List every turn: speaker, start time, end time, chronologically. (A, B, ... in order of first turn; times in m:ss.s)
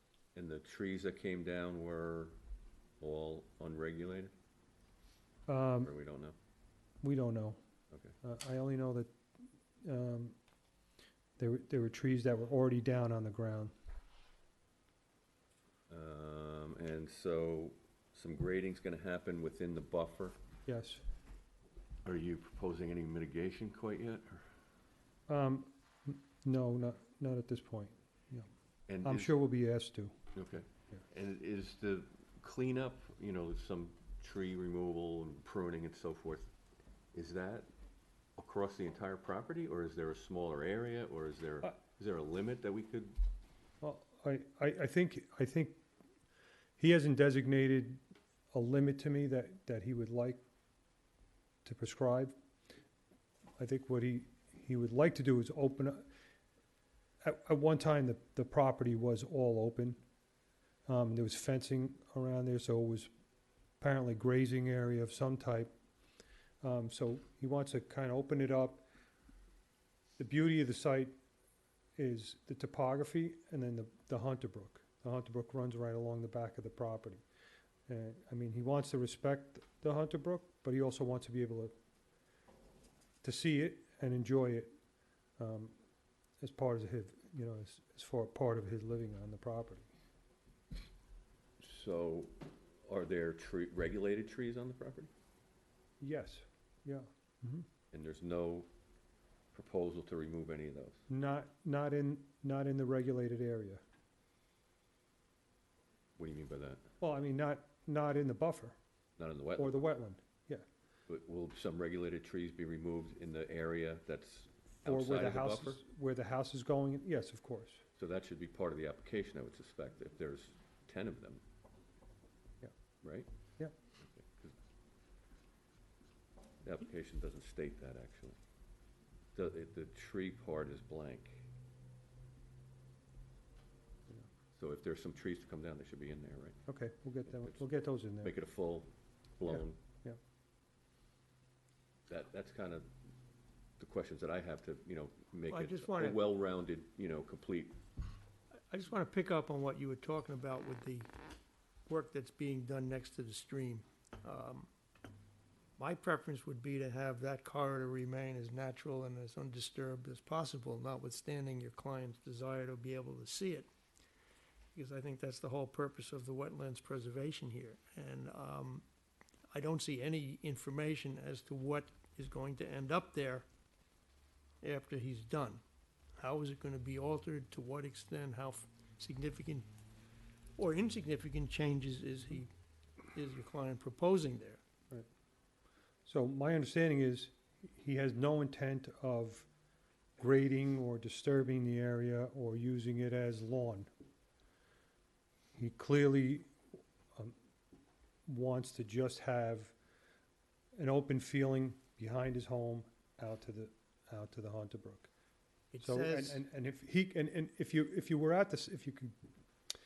0:00.4-0:02.4 A
0:03.0-0:04.3 A
0:05.5-0:05.9 B
0:05.8-0:06.4 A
0:07.0-0:07.6 B
0:08.2-0:09.1 B
0:09.8-0:10.4 B
0:11.4-0:13.7 B
0:15.9-0:20.4 A
0:20.7-0:21.0 B
0:22.0-0:24.4 A
0:25.3-0:28.5 B
0:28.9-0:29.4 A
0:29.0-0:30.2 B
0:30.3-0:36.5 A
0:37.1-0:37.7 A
0:38.4-0:43.2 A
0:43.8-0:45.8 B
0:46.8-0:48.0 B
0:48.5-0:50.4 B
0:51.6-0:52.4 B
0:53.6-0:56.1 B
0:57.2-1:00.0 B
1:00.9-1:03.1 B
1:03.8-1:05.7 B
1:06.6-1:08.8 B
1:10.2-1:11.1 B
1:12.0-1:17.2 B
1:17.9-1:21.7 B
1:23.2-1:24.7 B
1:25.4-1:25.7 B
1:26.4-1:29.9 B
1:31.6-1:32.3 A
1:32.9-1:35.1 A
1:36.0-1:37.6 B
1:37.9-1:38.7 A
1:39.5-1:41.0 A
1:41.1-1:43.8 B
1:46.2-1:46.8 A
1:47.0-1:48.8 B
1:49.2-1:49.8 A
1:49.6-1:50.6 B
1:51.1-1:55.8 A
1:54.8-1:57.8 B
1:58.0-2:01.4 A
2:03.0-2:03.3 A
2:04.0-2:04.6 A
2:06.6-2:08.4 A
2:09.4-2:11.4 A
2:14.6-2:16.6 A
2:16.7-2:18.4 B
2:17.3-2:17.6 A
2:18.2-2:19.8 A
2:19.5-2:20.2 B
2:22.1-2:22.9 A
2:23.8-2:27.8 A
2:25.5-2:26.2 C
2:28.7-2:31.1 C
2:31.9-2:34.7 C
2:35.8-2:43.7 C
2:44.8-2:48.8 C
2:49.5-2:53.5 C
2:54.6-2:55.6 C
2:56.2-2:59.7 C
3:00.6-3:02.5 C
3:03.1-3:04.6 C
3:06.1-3:09.5 B
3:10.2-3:13.9 B
3:15.6-3:16.5 B
3:18.3-3:19.7 B
3:20.8-3:25.1 B
3:25.7-3:26.4 C
3:25.8-3:29.2 B